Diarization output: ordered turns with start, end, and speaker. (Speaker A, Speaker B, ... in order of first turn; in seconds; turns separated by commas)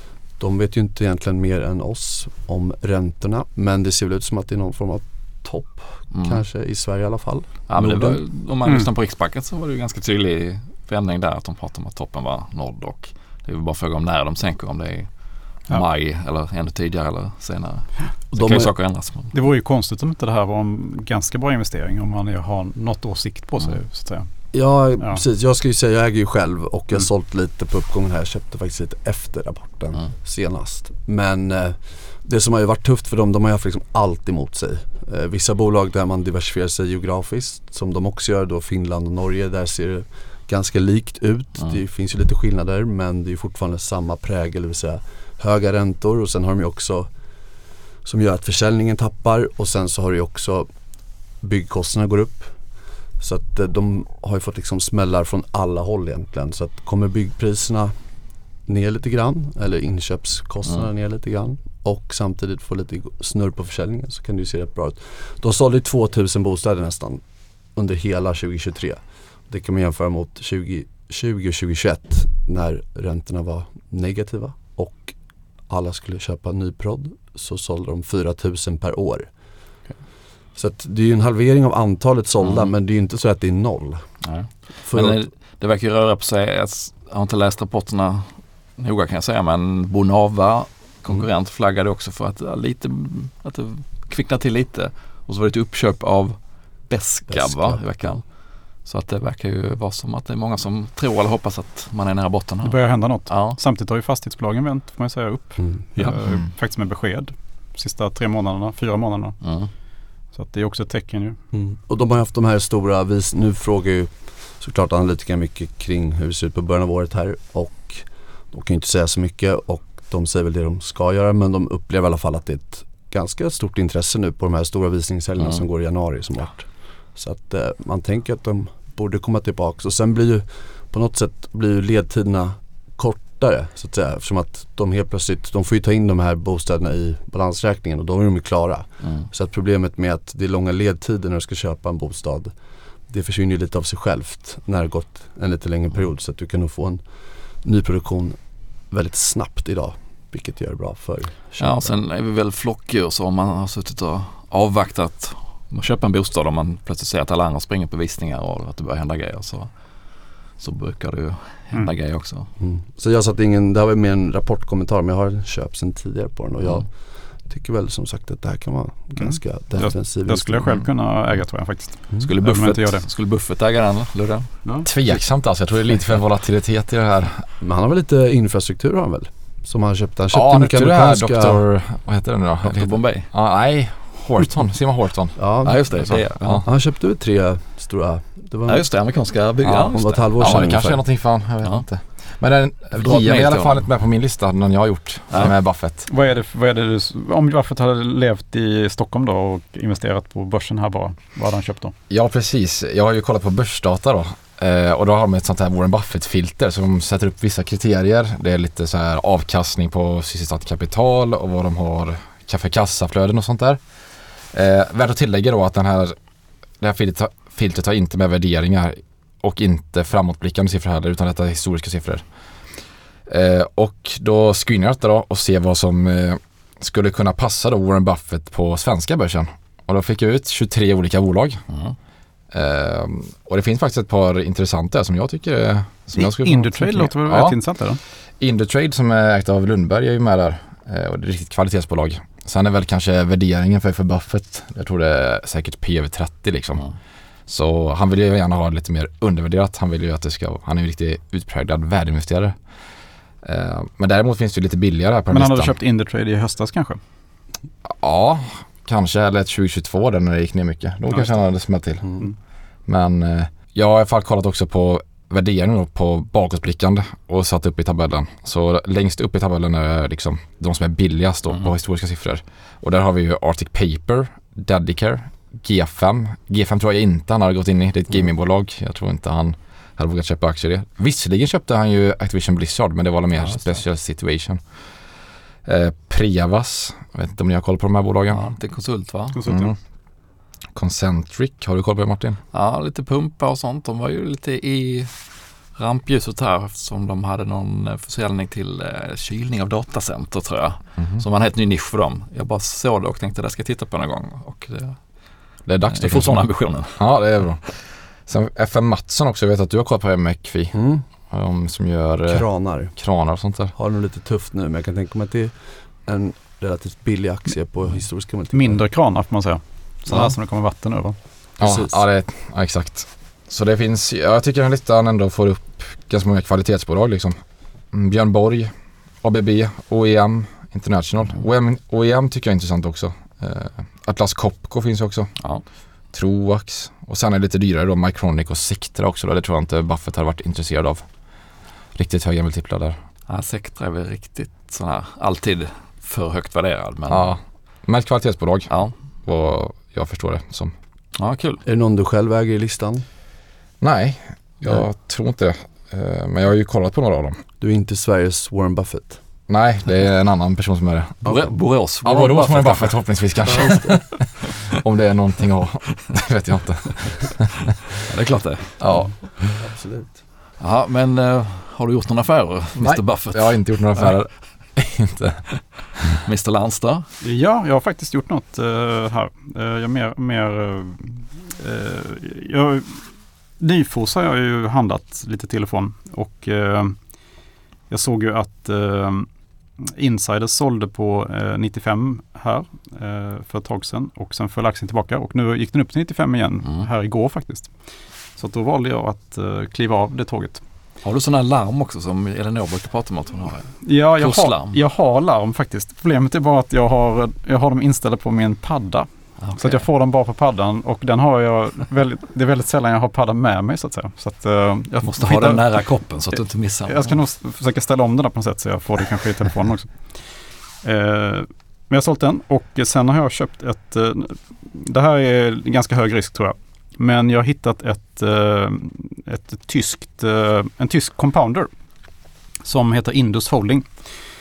Speaker A: 0.4-8.2, Speaker B: 6.1-6.4, Speaker B: 7.7-19.3, Speaker A: 18.3-18.7, Speaker C: 19.3-24.3, Speaker A: 24.5-47.1, Speaker A: 48.0-50.7, Speaker A: 51.4-52.6, Speaker A: 53.2-57.9, Speaker A: 58.7-67.2, Speaker A: 67.7-75.2, Speaker A: 75.7-79.3, Speaker A: 80.5-84.2, Speaker B: 82.4-82.7, Speaker B: 84.2-96.4, Speaker A: 84.8-85.2, Speaker B: 96.9-98.3, Speaker A: 97.3-97.8, Speaker B: 98.8-103.6, Speaker C: 102.6-109.4, Speaker B: 109.4-109.7, Speaker C: 110.3-111.4, Speaker A: 111.5-142.5, Speaker B: 139.0-139.3, Speaker A: 143.1-147.0, Speaker A: 147.6-148.4, Speaker A: 148.9-151.9, Speaker B: 151.6-159.7, Speaker B: 160.6-162.5, Speaker A: 162.6-170.7, Speaker B: 166.6-166.9, Speaker C: 169.2-173.1, Speaker B: 172.2-174.6, Speaker D: 174.8-177.5, Speaker A: 177.6-181.6, Speaker D: 180.3-186.7, Speaker B: 182.6-183.3, Speaker A: 185.4-188.9, Speaker B: 185.6-186.7, Speaker B: 188.7-190.9, Speaker D: 189.7-196.1, Speaker A: 189.7-191.0, Speaker B: 192.9-193.9, Speaker C: 196.1-201.9, Speaker D: 202.1-213.8, Speaker D: 214.5-216.2, Speaker D: 216.8-222.2, Speaker D: 223.3-231.6, Speaker B: 231.7-231.9, Speaker D: 232.5-237.6, Speaker C: 236.2-238.0, Speaker D: 238.4-246.9, Speaker D: 247.5-252.6, Speaker D: 253.4-255.8, Speaker C: 255.3-257.0, Speaker D: 257.9-262.2, Speaker D: 262.9-284.6, Speaker D: 285.6-288.5, Speaker B: 288.3-289.4, Speaker C: 289.3-289.7, Speaker D: 289.5-289.8, Speaker D: 290.8-292.4, Speaker B: 292.5-295.2, Speaker B: 295.8-305.0, Speaker D: 301.0-301.2, Speaker D: 305.7-310.8, Speaker B: 305.9-307.0, Speaker A: 310.7-311.0, Speaker D: 311.3-313.7, Speaker A: 312.3-313.0, Speaker A: 313.7-318.8, Speaker C: 318.5-321.2, Speaker A: 320.1-320.3, Speaker D: 321.6-327.4, Speaker A: 321.6-322.0, Speaker D: 327.9-328.7, Speaker D: 329.2-335.3, Speaker D: 336.1-341.1, Speaker D: 341.9-343.0, Speaker B: 343.3-347.4, Speaker D: 347.1-348.7, Speaker B: 348.7-348.9, Speaker D: 349.2-350.7, Speaker B: 351.1-351.6, Speaker A: 351.6-353.1, Speaker D: 353.8-357.4, Speaker A: 357.6-359.2, Speaker D: 359.5-367.5, Speaker B: 361.2-363.7, Speaker A: 363.5-364.0, Speaker B: 368.1-368.8, Speaker D: 368.8-369.5, Speaker A: 369.6-370.2, Speaker B: 370.6-374.2, Speaker D: 372.8-375.5, Speaker B: 376.2-377.1, Speaker C: 377.2-383.1, Speaker C: 383.6-387.0, Speaker C: 387.9-389.3, Speaker C: 389.8-397.7, Speaker C: 398.4-400.6, Speaker B: 401.0-404.8, Speaker C: 403.8-415.8, Speaker B: 409.4-409.9, Speaker B: 415.0-417.2, Speaker C: 416.9-420.3, Speaker C: 420.8-431.7, Speaker C: 432.6-434.1